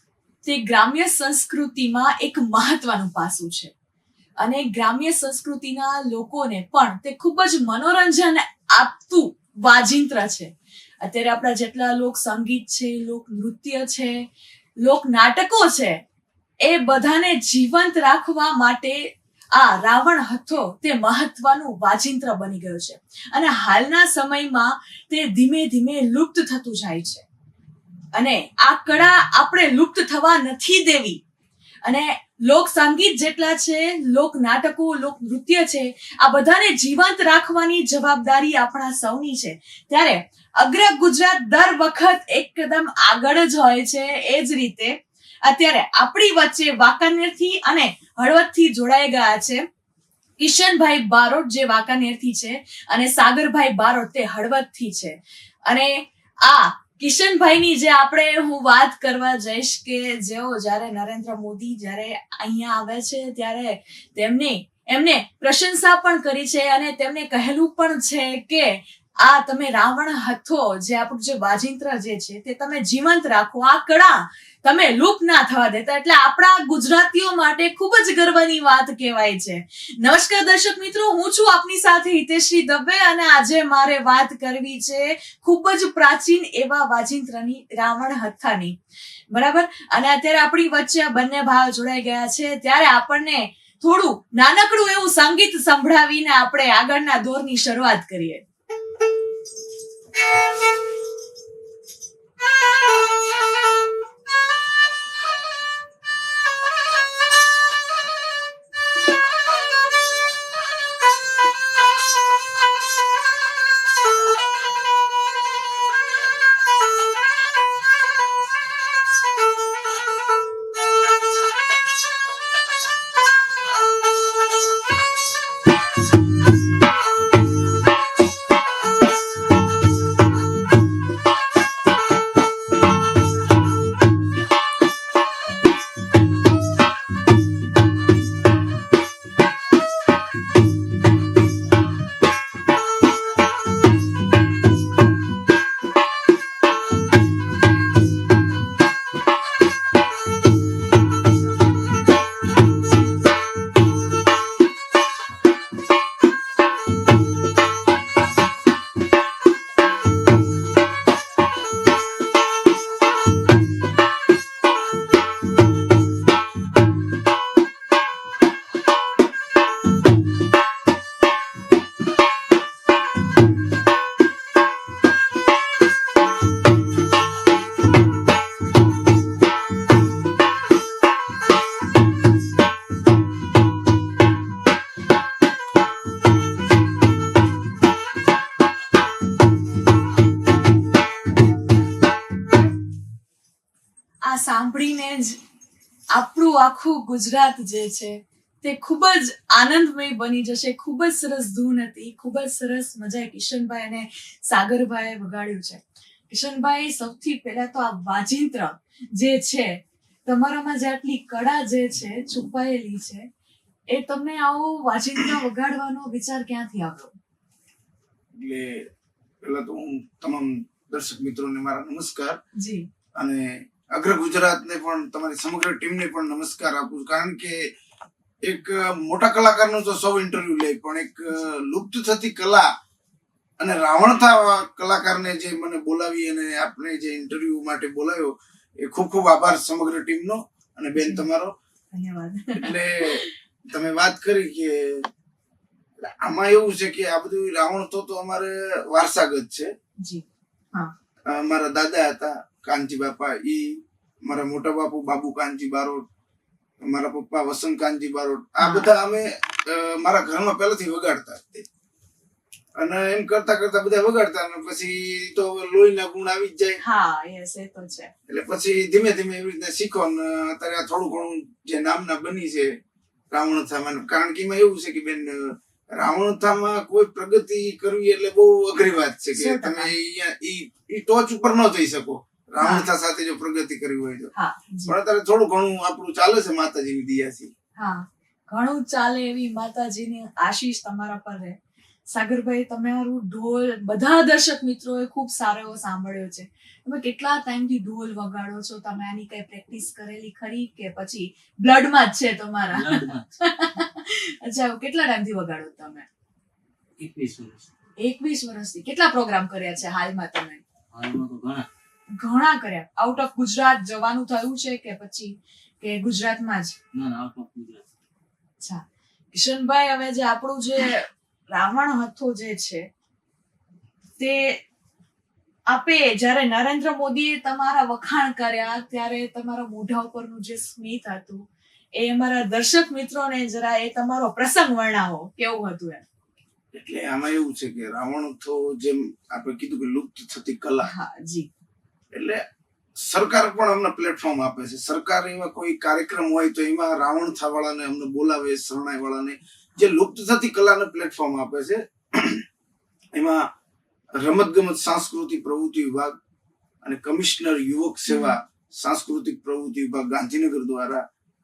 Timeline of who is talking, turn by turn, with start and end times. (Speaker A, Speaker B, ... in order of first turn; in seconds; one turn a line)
Speaker A: 0.4-3.7
Speaker A: 4.4-10.5
Speaker A: 11.0-14.2
Speaker A: 14.8-16.0
Speaker A: 16.6-27.2
Speaker A: 28.1-31.2
Speaker A: 31.8-49.6
Speaker A: 50.4-88.8
Speaker A: 89.3-98.4
Speaker A: 194.2-195.4
Speaker A: 196.1-213.3
Speaker A: 213.9-217.2
Speaker B: 218.4-218.9
Speaker B: 219.4-222.4
Speaker A: 222.6-222.8
Speaker B: 223.2-227.7
Speaker B: 228.4-232.7
Speaker B: 233.6-241.5
Speaker A: 240.9-241.2
Speaker A: 241.9-243.3
Speaker B: 242.5-245.1
Speaker B: 246.2-249.7
Speaker A: 250.0-250.9
Speaker B: 251.3-256.0
Speaker B: 256.8-261.6
Speaker A: 258.6-258.9
Speaker B: 262.8-266.8
Speaker A: 266.8-268.1
Speaker B: 268.3-272.7
Speaker B: 273.3-284.3
Speaker A: 279.3-279.9
Speaker A: 282.6-282.9
Speaker A: 284.3-284.9
Speaker B: 284.9-287.5
Speaker A: 287.8-291.6
Speaker A: 292.1-306.1
Speaker C: 302.7-303.3
Speaker C: 307.0-307.7
Speaker A: 308.0-310.6
Speaker C: 310.9-311.7
Speaker A: 312.1-316.8
Speaker C: 316.9-317.9
Speaker A: 318.6-322.9
Speaker A: 324.2-324.6
Speaker A: 325.7-331.4
Speaker A: 331.9-336.0
Speaker B: 336.7-340.9
Speaker A: 340.8-341.5
Speaker B: 342.1-342.4
Speaker B: 343.0-352.4
Speaker B: 353.1-353.4
Speaker B: 354.2-356.1
Speaker B: 356.8-361.0
Speaker A: 358.1-358.4